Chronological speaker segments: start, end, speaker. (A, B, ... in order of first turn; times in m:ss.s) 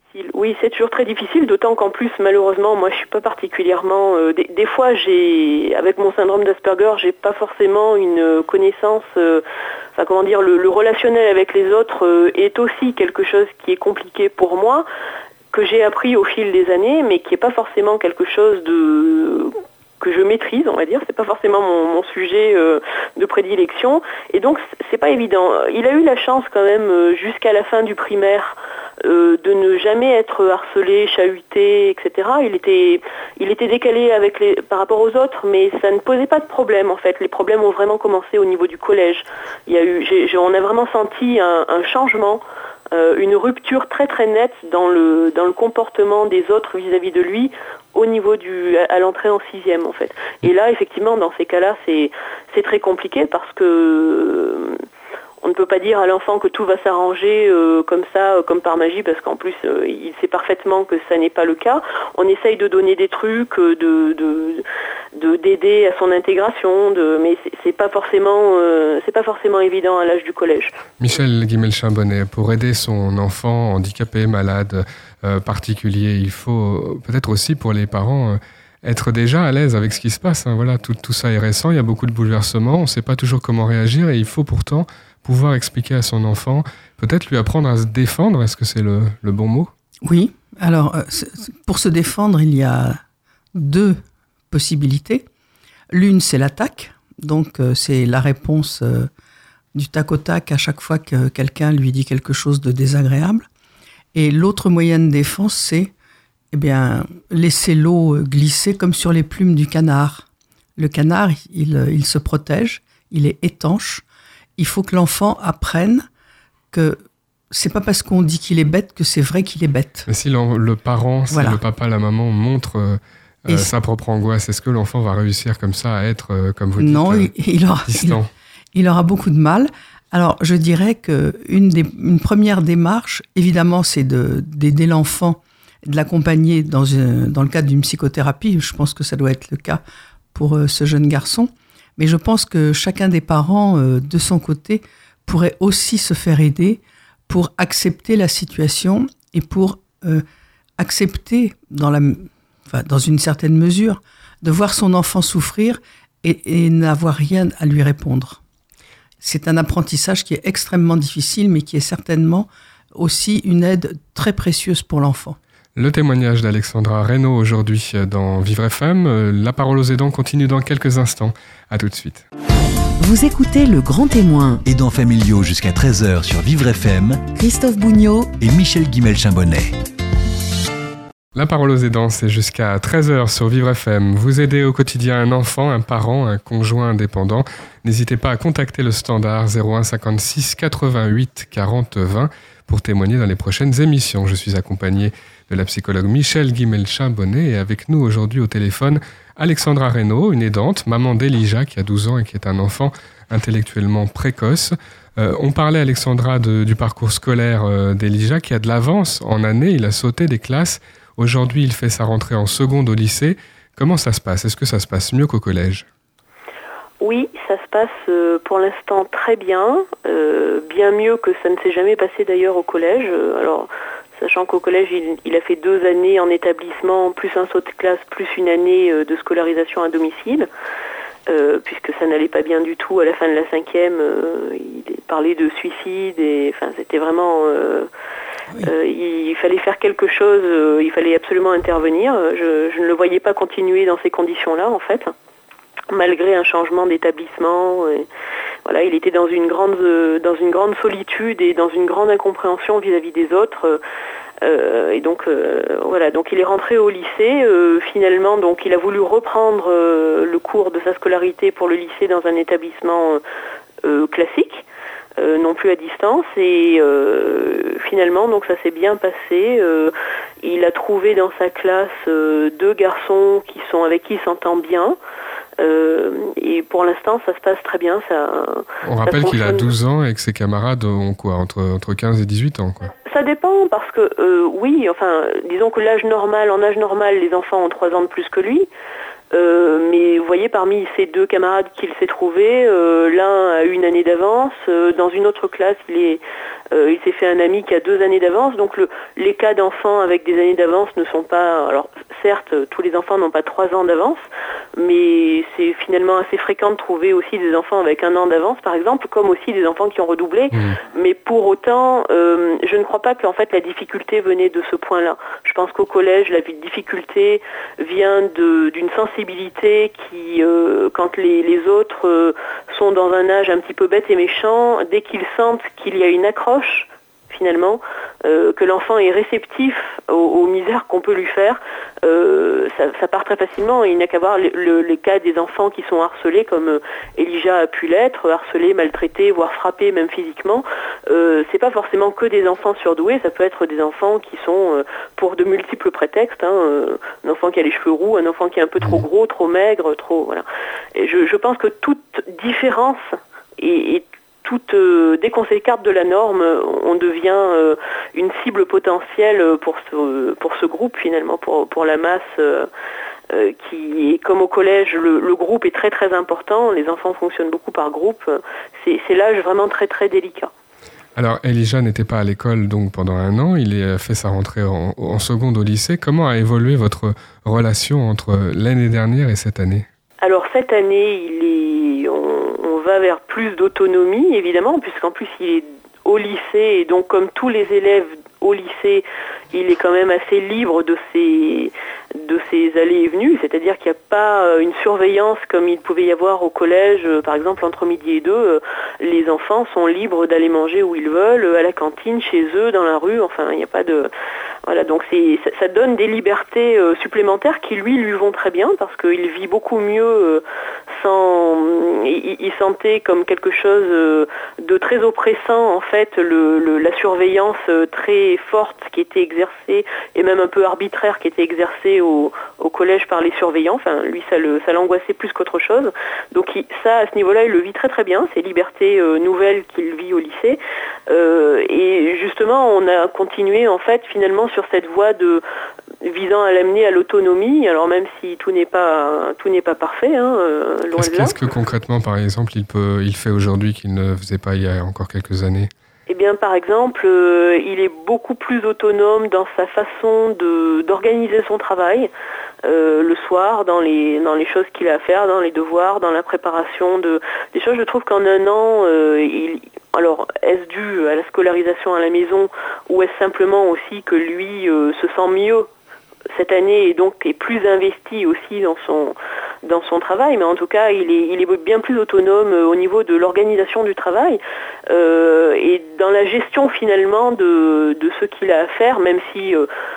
0:00.1-0:09.4 A
0:10.0-0:14.9 A
0:15.5-0:54.8 A
0:55.4-1:10.8 A
1:11.0-1:29.7 B
1:30.0-1:33.0 C
1:33.5-1:34.0 C
1:34.5-1:35.3 C
1:35.9-1:39.1 C
1:39.7-1:43.5 C
1:44.1-1:45.9 C
1:46.5-1:50.3 C
1:50.8-1:54.0 C
1:54.6-1:56.1 C
1:56.7-1:57.0 C
1:57.5-2:00.1 C
2:00.1-2:07.3 B
2:01.3-2:01.6 C
2:06.8-2:08.2 C
2:07.9-2:08.3 B
2:08.7-2:19.8 C
2:20.3-2:30.2 C
2:30.8-2:38.4 C
2:39.2-2:45.4 C
2:45.8-2:52.3 B
2:53.0-2:54.6 D
2:54.6-2:57.3 E
2:57.3-2:58.4 D
2:58.4-2:59.8 E
3:01.4-3:35.8 B
3:37.0-3:50.5 A
3:51.3-3:57.9 A
3:58.6-4:05.1 A
4:05.9-4:08.1 A
4:08.7-4:13.8 A
4:14.4-4:23.2 A
4:23.8-4:24.6 A
4:25.2-4:35.0 A
4:35.6-4:39.7 A
4:38.8-4:42.9 B
4:43.1-4:48.7 A
4:49.3-5:04.2 A
5:04.8-6:02.7 A
6:03.3-6:10.5 A
6:11.2-6:19.9 B
6:20.2-6:44.1 A
6:44.7-7:15.4 A
7:16.0-7:21.4 A
7:21.0-7:25.7 B
7:26.1-7:32.1 A
7:32.6-7:45.7 A
7:46.3-7:59.7 A